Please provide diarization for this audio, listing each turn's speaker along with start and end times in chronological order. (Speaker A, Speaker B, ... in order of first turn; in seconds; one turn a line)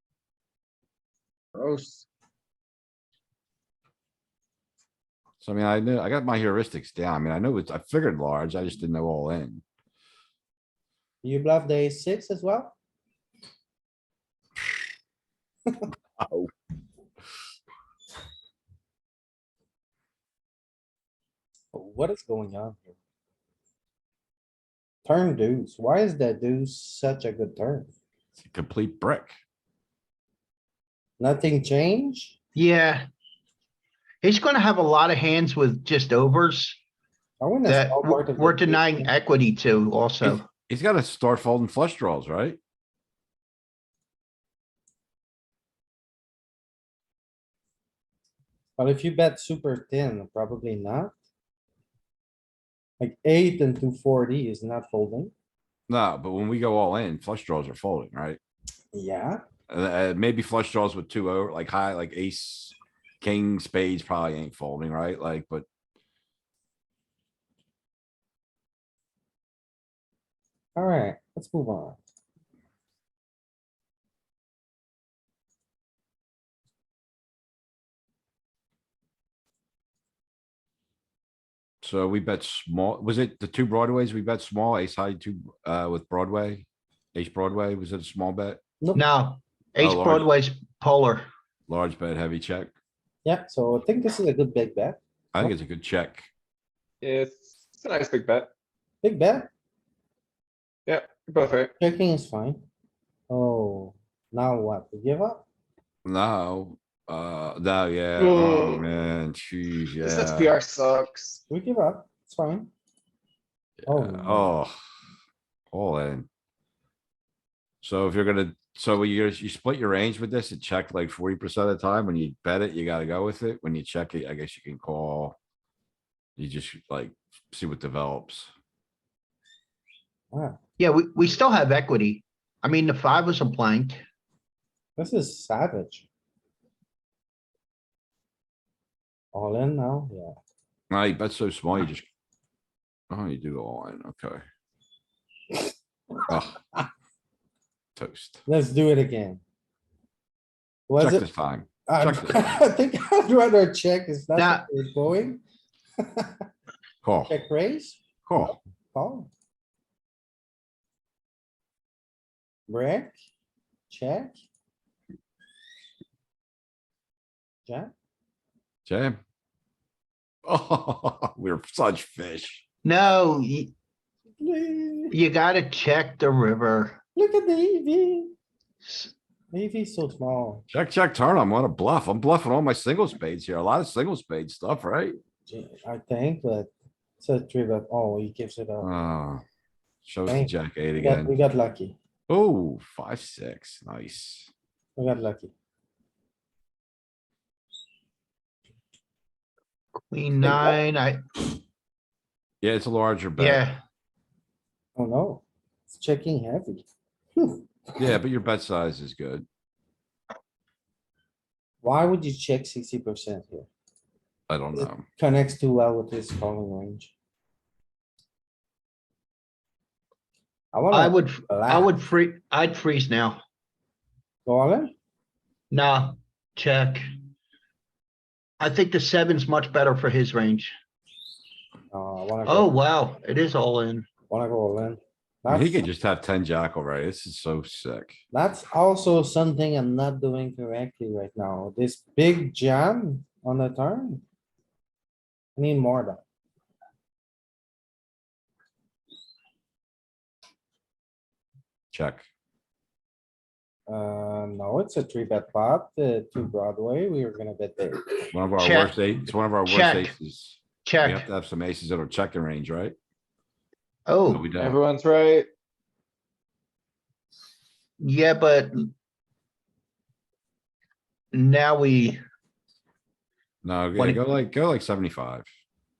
Speaker A: 1.5-2.0
Speaker B: 5.4-9.6
Speaker C: 11.2-12.7
Speaker B: 16.2-16.5
Speaker C: 21.7-22.9
Speaker C: 25.0-27.9
Speaker B: 28.4-29.4
Speaker C: 31.2-32.3
Speaker D: 32.5-33.1
Speaker D: 34.2-36.8
Speaker C: 37.4-39.1
Speaker D: 37.6-40.5
Speaker B: 40.2-42.6
Speaker C: 48.8-51.1
Speaker C: 53.0-55.3
Speaker B: 55.9-58.4
Speaker C: 58.9-59.4
Speaker B: 59.7-65.6
Speaker C: 70.8-72.0
Speaker B: 81.8-88.6
Speaker D: 88.9-91.3
Speaker B: 89.8-90.3
Speaker B: 91.7-92.7
Speaker C: 93.2-95.5
Speaker B: 95.3-96.3
Speaker A: 97.0-98.5
Speaker C: 99.0-99.5
Speaker A: 100.9-101.7
Speaker C: 101.8-102.6
Speaker C: 103.3-105.4
Speaker B: 106.0-110.5
Speaker A: 108.2-108.8
Speaker A: 110.0-111.4
Speaker C: 111.5-112.7
Speaker B: 113.8-114.7
Speaker C: 113.8-114.5
Speaker B: 115.7-116.3
Speaker B: 117.8-125.3
Speaker B: 126.4-128.5
Speaker C: 130.3-130.6
Speaker D: 130.8-134.0
Speaker C: 135.0-136.1
Speaker C: 139.3-140.3
Speaker B: 140.9-142.1
Speaker B: 143.1-144.4
Speaker B: 146.3-146.6
Speaker C: 146.3-146.8
Speaker B: 147.9-148.4
Speaker C: 148.4-149.4
Speaker C: 150.9-151.2
Speaker B: 151.0-152.6
Speaker C: 151.8-155.4
Speaker D: 154.3-154.7
Speaker C: 156.1-156.4
Speaker B: 157.0-157.3
Speaker C: 157.3-159.3
Speaker B: 158.2-158.5
Speaker C: 162.7-163.1
Speaker C: 163.9-164.4
Speaker C: 167.7-167.9
Speaker B: 168.8-169.2
Speaker B: 170.4-172.6
Speaker D: 172.8-173.7
Speaker C: 174.4-175.1
Speaker D: 175.1-177.0
Speaker C: 177.1-178.3
Speaker D: 178.8-179.1
Speaker C: 179.5-180.6
Speaker B: 180.7-185.2
Speaker C: 185.5-188.9
Speaker B: 188.8-189.4
Speaker B: 190.1-191.3
Speaker C: 190.3-191.9
Speaker B: 192.3-194.5
Speaker C: 194.9-195.5
Speaker D: 200.1-201.4
Speaker B: 202.6-203.6
Speaker D: 203.4-203.8
Speaker C: 204.9-206.8
Speaker C: 207.4-208.1
Speaker B: 208.0-209.4
Speaker C: 211.8-213.7
Speaker B: 214.5-215.0
Speaker C: 214.8-217.1
Speaker C: 220.7-221.9
Speaker D: 220.9-223.4
Speaker C: 224.4-224.9
Speaker D: 225.7-227.1
Speaker D: 228.6-230.7
Speaker C: 231.9-232.7
Speaker D: 232.4-234.1
Speaker C: 234.3-235.9
Speaker B: 235.5-238.2
Speaker C: 238.3-244.2
Speaker C: 245.6-246.2
Speaker B: 251.9-252.2
Speaker C: 253.9-258.3
Speaker B: 258.3-262.9
Speaker D: 258.6-258.9
Speaker D: 259.6-260.1
Speaker D: 260.8-261.2
Speaker D: 264.1-264.4
Speaker B: 264.3-264.8
Speaker A: 264.6-265.5
Speaker D: 268.0-268.9
Speaker D: 271.3-272.2
Speaker B: 273.6-275.4